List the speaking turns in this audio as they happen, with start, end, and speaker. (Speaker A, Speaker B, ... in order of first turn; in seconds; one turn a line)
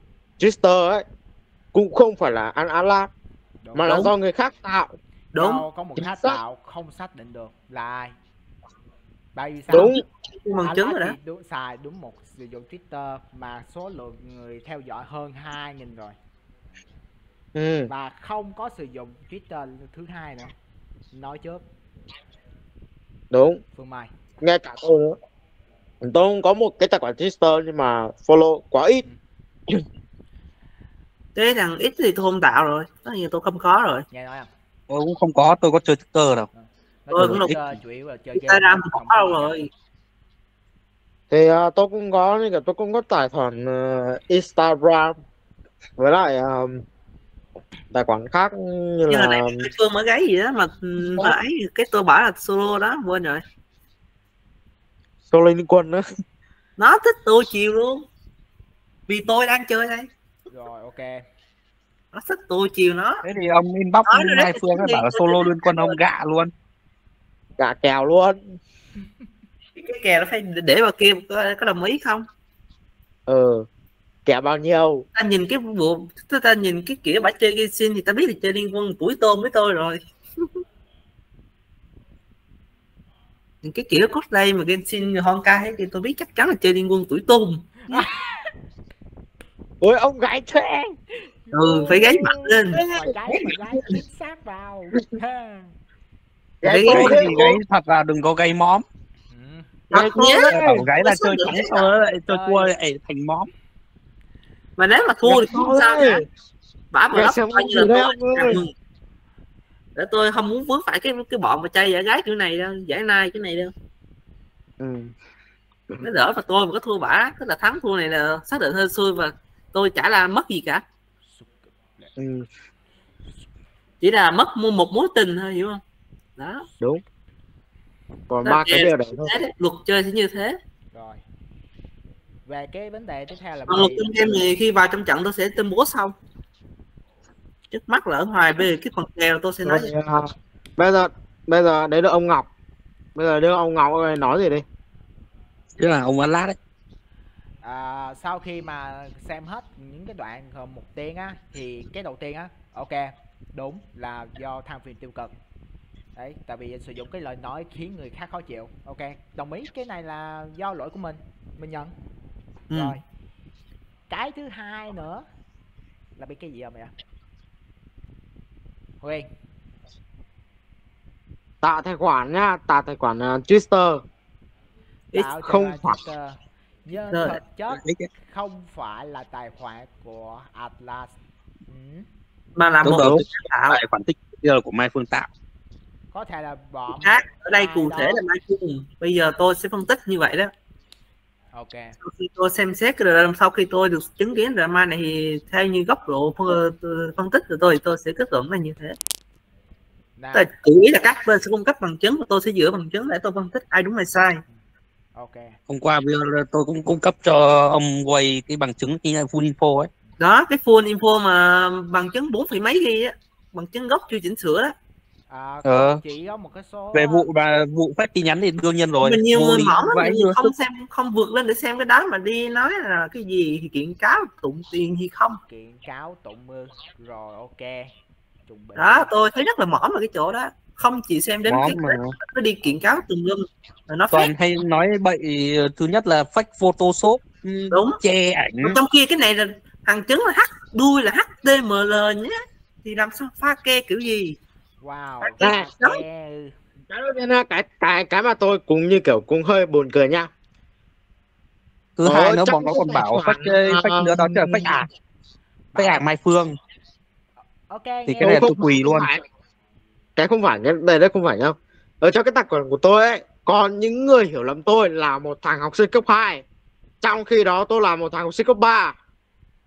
Speaker A: 0.4-1.1
Speaker A: 1.7-3.1
Speaker B: 3.6-4.0
Speaker A: 3.7-5.0
Speaker C: 5.3-5.6
Speaker B: 5.4-8.1
Speaker A: 6.0-6.4
Speaker B: 9.3-10.0
Speaker A: 9.7-10.0
Speaker C: 10.5-11.2
Speaker B: 10.6-16.2
Speaker A: 17.6-17.9
Speaker B: 17.9-20.5
Speaker B: 21.1-21.6
Speaker A: 23.3-23.6
Speaker B: 23.8-24.1
Speaker A: 24.4-25.2
Speaker A: 26.0-29.1
Speaker C: 31.4-34.1
Speaker B: 34.1-34.5
Speaker D: 34.9-36.5
Speaker B: 36.5-39.5
Speaker C: 37.1-37.6
Speaker D: 37.2-37.5
Speaker C: 38.4-39.7
Speaker A: 41.3-45.2
Speaker A: 46.0-46.8
Speaker A: 47.9-49.7
Speaker C: 49.1-53.4
Speaker A: 55.3-56.0
Speaker C: 56.8-58.0
Speaker C: 59.1-60.1
Speaker B: 60.5-61.2
Speaker C: 62.1-63.2
Speaker D: 63.2-66.5
Speaker C: 64.1-66.0
Speaker A: 67.6-68.4
Speaker C: 69.8-72.2
Speaker A: 73.3-73.7
Speaker A: 74.3-75.0
Speaker C: 75.2-80.0
Speaker C: 83.6-87.7
Speaker B: 87.9-88.5
Speaker A: 89.8-91.0
Speaker B: 91.1-95.8
Speaker C: 91.5-92.8
Speaker A: 92.7-93.5
Speaker A: 96.6-97.6
Speaker C: 96.6-97.6
Speaker D: 96.8-98.8
Speaker B: 99.3-99.7
Speaker C: 99.9-101.8
Speaker A: 99.9-100.9
Speaker D: 100.5-103.5
Speaker B: 102.3-102.7
Speaker C: 104.8-106.2
Speaker A: 105.2-106.2
Speaker C: 106.9-108.7
Speaker A: 107.1-108.6
Speaker C: 110.0-113.7
Speaker A: 114.8-115.1
Speaker C: 116.0-120.8
Speaker B: 121.2-122.1
Speaker A: 122.2-122.5
Speaker C: 124.0-125.8
Speaker C: 126.4-126.6
Speaker A: 128.3-129.3
Speaker C: 128.4-130.6
Speaker B: 130.9-131.2
Speaker B: 132.5-134.4
Speaker C: 133.7-136.2
Speaker C: 137.7-139.9
Speaker A: 139.7-142.5
Speaker A: 143.2-144.6
Speaker D: 145.8-146.6
Speaker B: 147.6-155.3
Speaker B: 156.2-161.9
Speaker B: 162.7-163.0
Speaker B: 164.1-165.3
Speaker B: 166.2-166.9
Speaker B: 169.0-169.3
Speaker A: 171.6-174.0
Speaker B: 175.2-182.1
Speaker A: 175.4-176.0
Speaker C: 177.1-177.4
Speaker D: 177.7-178.1
Speaker C: 182.6-183.8
Speaker D: 182.8-185.3
Speaker B: 186.1-188.2
Speaker C: 187.0-190.5
Speaker B: 191.5-191.9
Speaker C: 192.0-199.0
Speaker B: 200.2-200.5
Speaker C: 200.3-204.4
Speaker B: 205.2-205.6
Speaker D: 205.7-209.9
Speaker C: 210.2-214.8
Speaker B: 215.3-217.3
Speaker D: 215.6-216.0
Speaker D: 216.9-220.5
Speaker C: 219.0-225.4
Speaker B: 225.5-227.9
Speaker B: 228.5-229.1
Speaker C: 228.8-234.3
Speaker D: 231.4-232.2
Speaker B: 232.7-233.0
Speaker D: 234.1-238.8
Speaker C: 237.7-238.0
Speaker C: 238.6-244.4
Speaker B: 244.8-246.6
Speaker A: 245.4-245.7
Speaker A: 246.9-250.3
Speaker D: 252.0-254.9
Speaker A: 252.0-254.9
Speaker D: 255.8-256.5
Speaker B: 257.7-258.8
Speaker D: 258.1-259.1
Speaker A: 258.2-259.2
Speaker A: 260.2-266.4
Speaker A: 267.0-269.0